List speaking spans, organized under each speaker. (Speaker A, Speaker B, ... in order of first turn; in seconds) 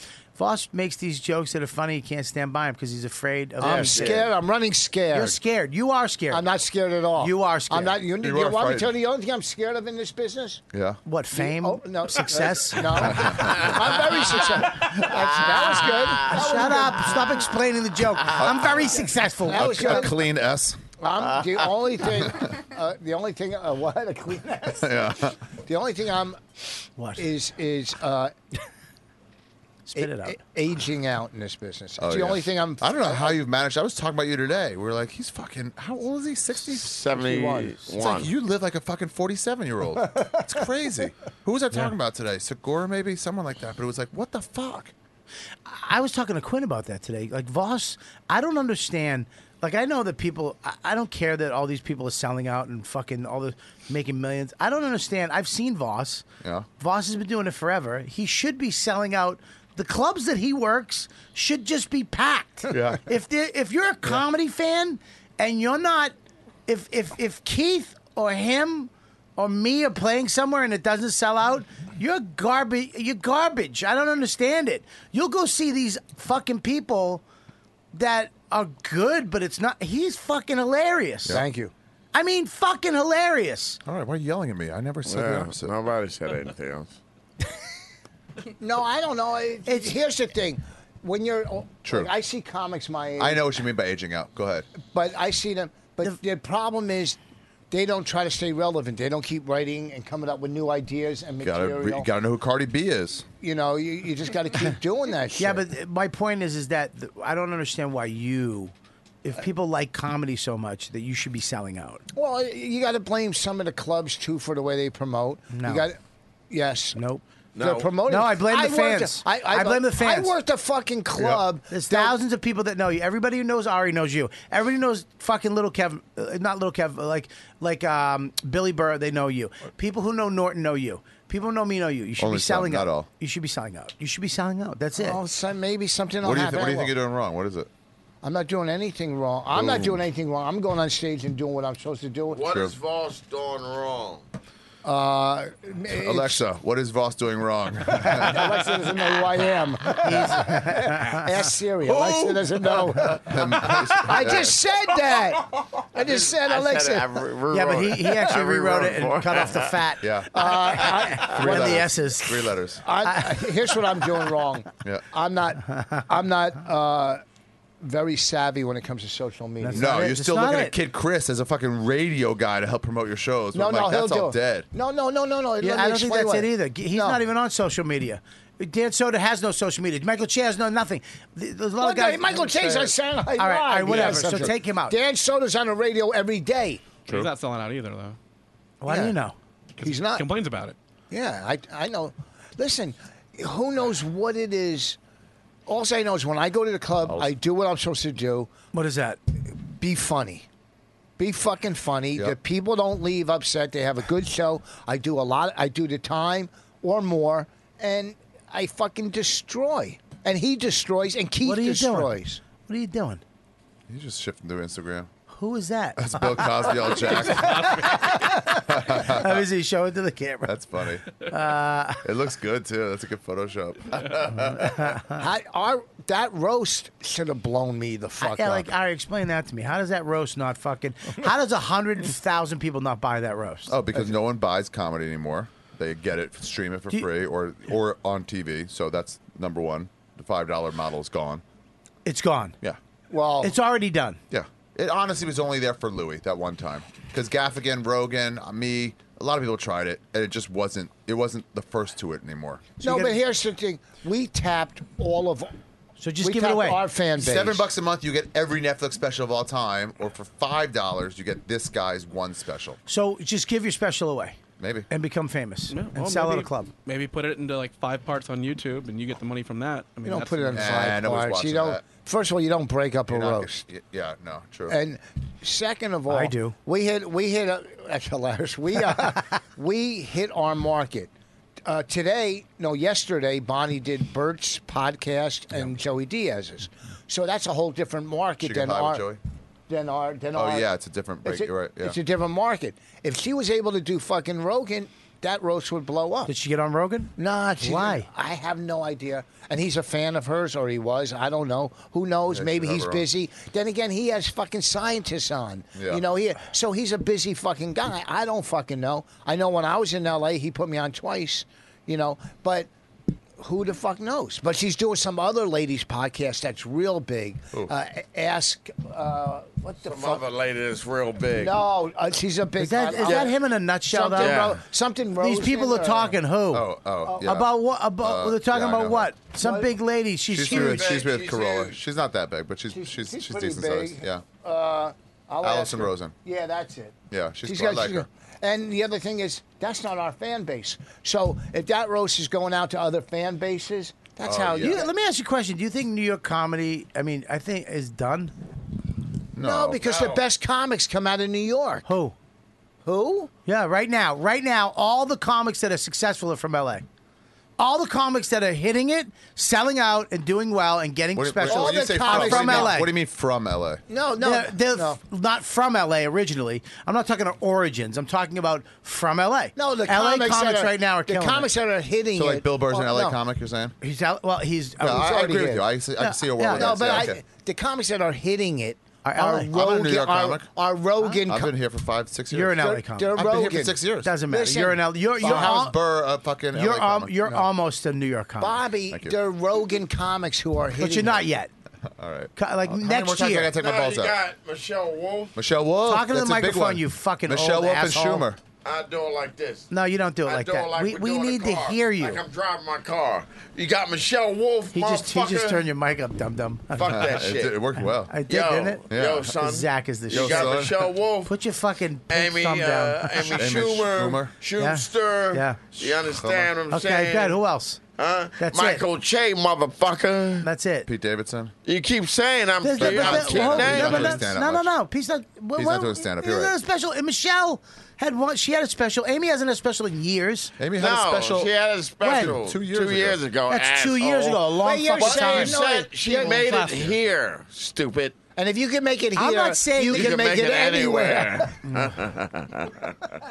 Speaker A: 0.3-4.2, 5.1-6.5, 7.2-8.0, 11.1-13.4, 16.2-20.1, 27.0-27.3, 29.9-30.4, 37.1-38.0, 45.6-56.2, 56.8-66.1, 66.7-77.2, 77.9-81.4, 82.1-83.8, 89.7-90.0, 105.4-108.7, 109.2-112.0, 115.5-115.9, 117.0-117.2, 118.0-120.3, 121.7-135.2, 150.0-151.2, 157.5-163.5, 169.6-170.8, 175.6-185.0, 188.8-189.3, 198.7-199.2, 211.4-213.2, 215.3-220.5, 221.2-222.0, 224.3-225.2, 228.2-233.7, 242.0-242.6, 243.4-244.2, 252.8-253.1, 256.0-256.8, 262.9-264.4, 264.9-266.7, 276.1-276.6, 296.3-298.1, 322.6-324.4, 325.2-331.0, 344.6-348.3, 351.9-352.1, 353.4-356.9, 357.6-362.9, 364.2-371.5, 373.8-375.2, 376.0-377.1, 379.0-379.5, 382.3-383.2, 384.0-385.8, 386.5-388.6, 390.8-391.5, 392.4-393.5, 395.9-398.2, 399.7-402.2, 404.7-407.1, 408.1-410.7, 411.2-413.4, 414.6-415.6, 416.7-417.8, 418.4-418.8, 420.4-420.9, 422.6-430.5, 432.0-432.3, 433.5-435.6, 436.2-436.8, 439.1-440.2, 441.6-441.9
Speaker B: 3.6-4.3, 15.4-16.2, 36.7-38.3, 85.0-87.0, 117.5-117.9, 142.3-144.2, 151.9-152.4, 156.0-159.7, 319.8-321.6, 324.1-324.6, 330.5-331.8, 349.8-350.2, 393.5-395.3, 398.6-399.7, 400.2-405.6, 406.7-407.6, 408.2-411.3, 412.1-417.4, 418.0-420.4, 421.6-424.2, 430.8-438.2, 439.8-442.9
Speaker C: 3.6-5.4, 6.3-10.6, 11.3-17.4, 19.4-20.2, 21.0-26.4, 27.2-28.3, 29.9-33.4, 81.3-81.7, 88.6-93.5, 94.8-97.2, 97.7-102.1, 103.4-105.7, 112.1-116.0, 116.5-117.0, 117.6-122.2, 134.9-136.9, 138.2-142.5, 144.8-146.4, 147.9-157.3, 160.3-161.9, 162.8-167.2, 167.8-170.0, 173.5-177.2, 181.8-186.9, 188.9-189.2, 189.8-190.3, 191.1-195.0, 195.7-198.5, 199.6-200.4, 201.2-212.4, 225.2-228.7, 243.1-243.5, 252.8-255.5, 256.2-257.6, 270.0-273.6, 274.7-281.1, 281.6-289.1, 289.7-290.7, 291.2-296.3, 297.2-312.7, 313.4-320.2, 321.3-326.2, 327.1-327.3, 329.4-329.8, 332.7-344.9, 349.4-351.9, 352.8-353.3, 361.4-362.8, 363.9-365.0, 369.6-373.2, 374.8-375.7, 376.5-381.6, 382.4-385.7, 387.2-387.5, 388.4-391.3, 434.6-436.8, 438.3-441.6
Speaker D: 8.2-8.9, 10.7-11.0, 13.1-13.8, 18.3-18.9, 19.5-20.8, 24.8-25.4, 32.0-36.9, 38.0-44.9, 62.7-63.0, 83.8-85.7, 91.8-92.1, 93.2-94.7, 101.4-103.2, 121.2-121.4, 132.2-133.1, 136.2-137.7, 139.5-140.0, 142.5-142.7, 145.9-148.7, 153.1-154.6, 160.0-160.3, 161.2-162.8, 169.7-174.7, 184.2-184.5, 197.1-197.3, 213.9-215.1, 216.0-217.9, 218.6-219.4, 220.4-221.1, 222.0-225.0, 233.7-241.4, 244.3-252.8, 257.1-262.8, 264.6-264.9, 270.5-271.8, 273.1-274.8, 288.4-289.2, 290.3-292.0, 302.3-303.0, 305.7-306.0, 326.5-329.1, 330.3-334.2, 335.4-336.1, 337.1-338.1, 344.2-344.8, 349.3-349.8, 361.1-363.8, 372.1-373.7, 374.8-377.2, 379.5-380.5, 381.2-384.1, 385.2-387.2, 388.9-389.2, 392.0-394.2, 395.4-398.4, 406.9-408.1, 408.9-409.3, 410.1-410.9, 413.4-414.3, 415.8-416.5, 420.9-421.5, 422.8-424.7, 425.6-426.5, 430.6-431.5, 432.1-433.2
Speaker E: 187.1-188.2, 189.8-190.8, 217.3-218.0, 265.7-270.7